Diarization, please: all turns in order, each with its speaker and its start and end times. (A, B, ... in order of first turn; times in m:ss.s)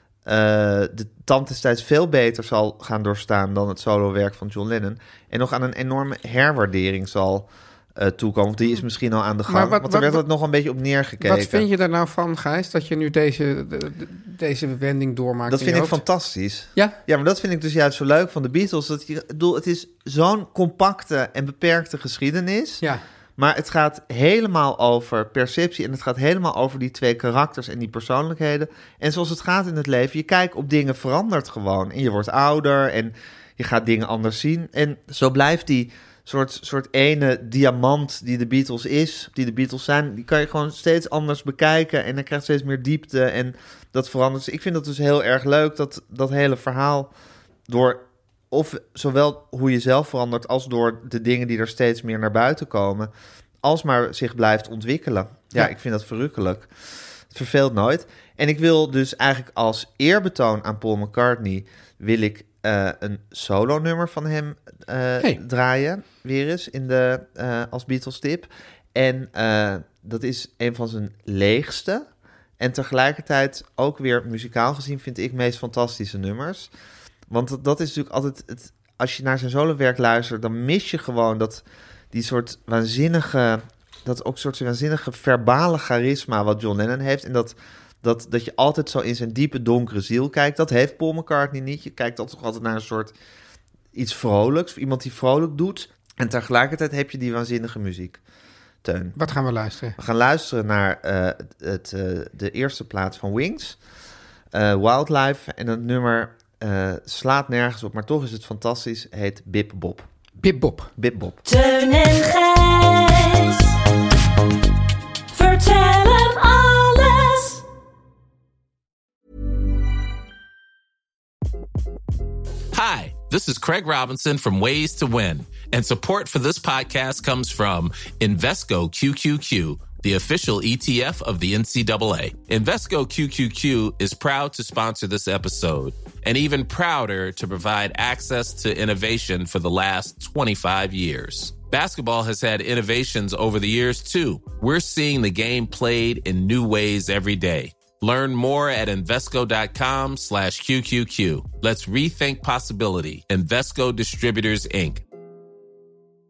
0:00.3-0:11.6 A
0:09.5-0:10.2 B
0:11.2-0:16.0 B
0:15.5-0:22.8 A
0:23.4-0:47.1 A
0:47.7-0:53.1 A
0:53.6-0:56.7 A
0:57.3-1:12.1 A
1:12.6-1:16.7 A
1:17.3-1:33.1 A
1:33.9-1:38.2 A
1:38.8-1:39.2 A
1:39.2-1:40.0 B
1:40.0-1:43.8 A
1:44.5-1:50.1 A
1:50.4-1:50.9 B
1:51.0-1:51.4 A
1:51.4-1:53.8 C
1:55.3-1:57.6 C
2:02.7-2:35.0 D